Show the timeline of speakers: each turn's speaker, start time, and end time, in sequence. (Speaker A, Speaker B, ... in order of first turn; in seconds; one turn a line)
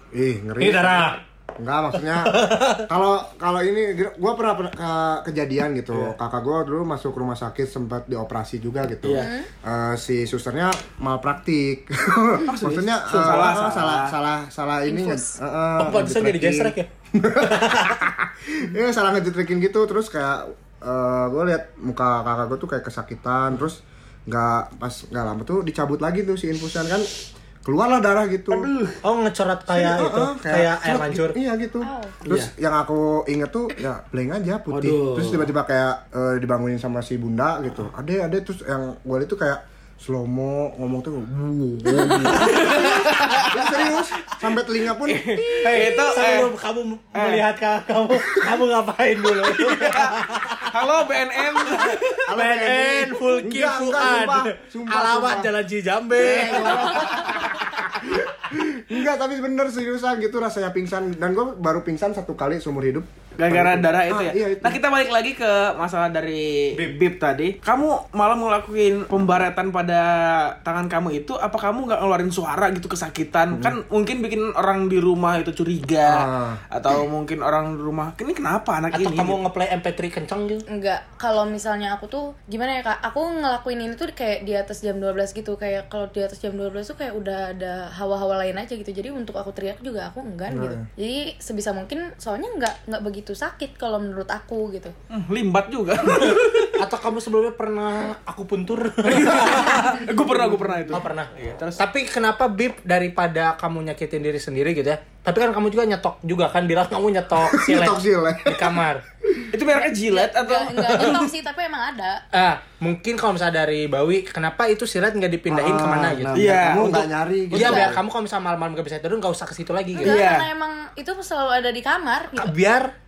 Speaker A: 0.1-27.1
Speaker B: 0.6-1.2
Speaker B: 2.1-2.8
Speaker C: 9.0-9.3
Speaker D: 9.2-9.5
Speaker C: 12.5-14.1
Speaker D: 14.8-15.3
Speaker B: 15.8-16.9
Speaker B: 17.5-18.0
Speaker A: 27.6-28.7
Speaker C: 28.5-29.0
Speaker B: 29.0-31.4
Speaker A: 29.7-45.3
Speaker D: 31.8-32.1
Speaker C: 32.2-32.5
Speaker C: 34.7-35.5
Speaker C: 42.1-44.4
Speaker C: 45.0-46.5
Speaker B: 45.6-50.7
Speaker C: 47.1-47.5
Speaker C: 49.3-52.2
Speaker B: 51.5-57.6
Speaker A: 52.2-55.5
Speaker A: 56.1-64.8
Speaker C: 56.2-57.0
Speaker C: 63.4-79.4
Speaker A: 73.5-73.8
Speaker A: 76.0-76.6
Speaker B: 78.9-80.6
Speaker D: 80.7-94.9
Speaker A: 90.5-90.8
Speaker C: 95.1-96.8
Speaker B: 96.2-100.1
Speaker C: 99.0-101.8
Speaker A: 100.4-101.0
Speaker B: 100.9-109.0
Speaker A: 107.4-109.5
Speaker C: 109.5-111.2
Speaker D: 109.7-112.2
Speaker B: 112.3-116.6
Speaker A: 115.5-118.0
Speaker C: 116.3-117.8
Speaker B: 117.5-120.2
Speaker D: 117.6-117.9
Speaker D: 120.0-122.5
Speaker C: 120.0-120.5
Speaker B: 122.4-122.9